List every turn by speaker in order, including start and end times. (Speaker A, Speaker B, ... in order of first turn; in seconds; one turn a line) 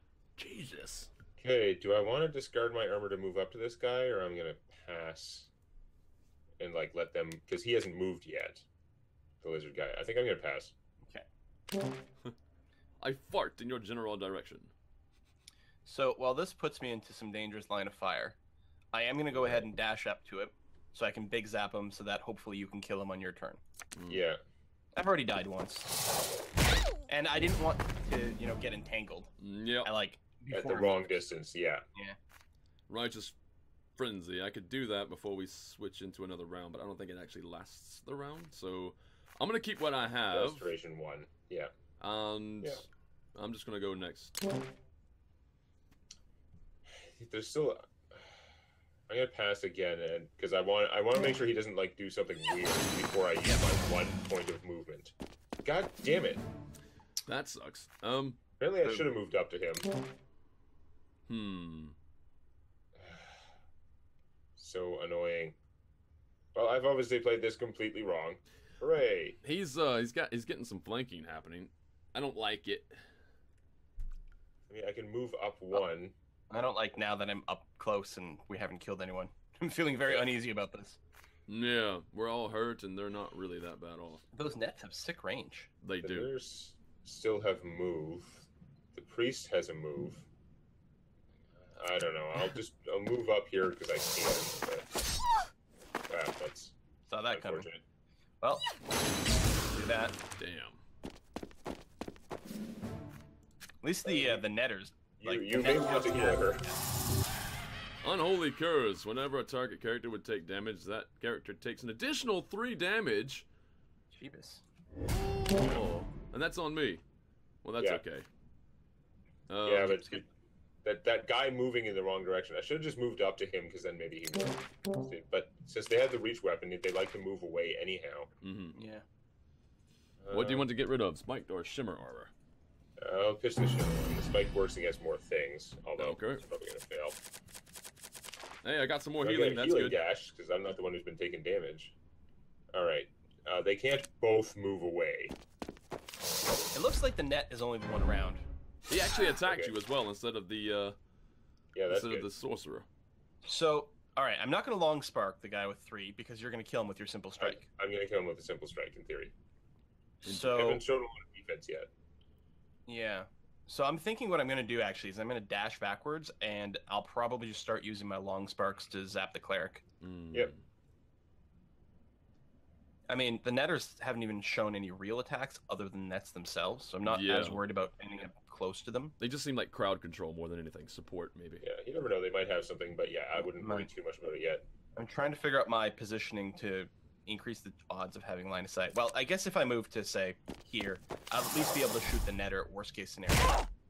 Speaker A: 0.4-1.1
Speaker B: 1.4-5.5
Speaker B: 6.6-8.7
Speaker B: 9.4-10.7
Speaker A: 13.0-14.7
Speaker C: 15.8-18.4
Speaker C: 18.9-23.6
Speaker A: 23.9-24.2
Speaker B: 24.1-24.4
Speaker C: 24.9-25.9
Speaker C: 27.1-29.3
Speaker A: 29.4-29.9
Speaker C: 29.8-31.1
Speaker B: 30.5-31.8
Speaker A: 32.9-33.4
Speaker A: 34.0-40.7
Speaker B: 40.3-41.7
Speaker A: 42.0-44.4
Speaker B: 46.9-48.3
Speaker B: 49.1-56.4
Speaker A: 57.3-58.4
Speaker B: 58.6-59.9
Speaker A: 61.3-62.0
Speaker B: 63.0-63.4
Speaker B: 64.6-65.6
Speaker B: 66.5-69.4
Speaker A: 69.4-73.0
Speaker B: 74.7-76.1
Speaker C: 76.5-81.0
Speaker A: 81.5-84.2
Speaker C: 84.3-85.7
Speaker A: 85.8-86.3
Speaker B: 86.0-90.3
Speaker B: 91.7-94.9
Speaker B: 96.1-96.8
Speaker C: 97.1-97.7
Speaker B: 97.3-97.8
Speaker C: 99.7-100.2
Speaker A: 100.4-100.8
Speaker C: 103.8-106.7
Speaker B: 104.0-104.4
Speaker B: 105.2-106.7
Speaker A: 108.0-113.4
Speaker C: 114.1-114.6
Speaker A: 115.4-117.0
Speaker B: 115.5-115.8
Speaker A: 117.6-118.3
Speaker A: 119.5-120.0
Speaker B: 119.6-120.2
Speaker B: 120.8-128.3
Speaker A: 128.4-128.8
Speaker C: 128.7-129.0
Speaker B: 130.2-130.7
Speaker A: 130.3-132.3
Speaker B: 133.0-137.2
Speaker A: 136.0-136.4
Speaker A: 138.6-140.0
Speaker B: 139.2-141.9
Speaker B: 142.7-145.3
Speaker C: 146.7-148.4
Speaker A: 148.9-150.9
Speaker B: 149.4-149.7
Speaker B: 151.7-152.3
Speaker A: 151.9-152.8
Speaker C: 153.4-157.6
Speaker B: 157.4-159.3
Speaker C: 160.2-160.8
Speaker B: 160.5-161.9
Speaker C: 162.9-169.8
Speaker A: 170.0-170.6
Speaker C: 173.1-179.1
Speaker A: 177.0-177.6
Speaker A: 179.2-181.6
Speaker B: 181.6-184.7
Speaker C: 183.6-183.9
Speaker C: 184.9-193.7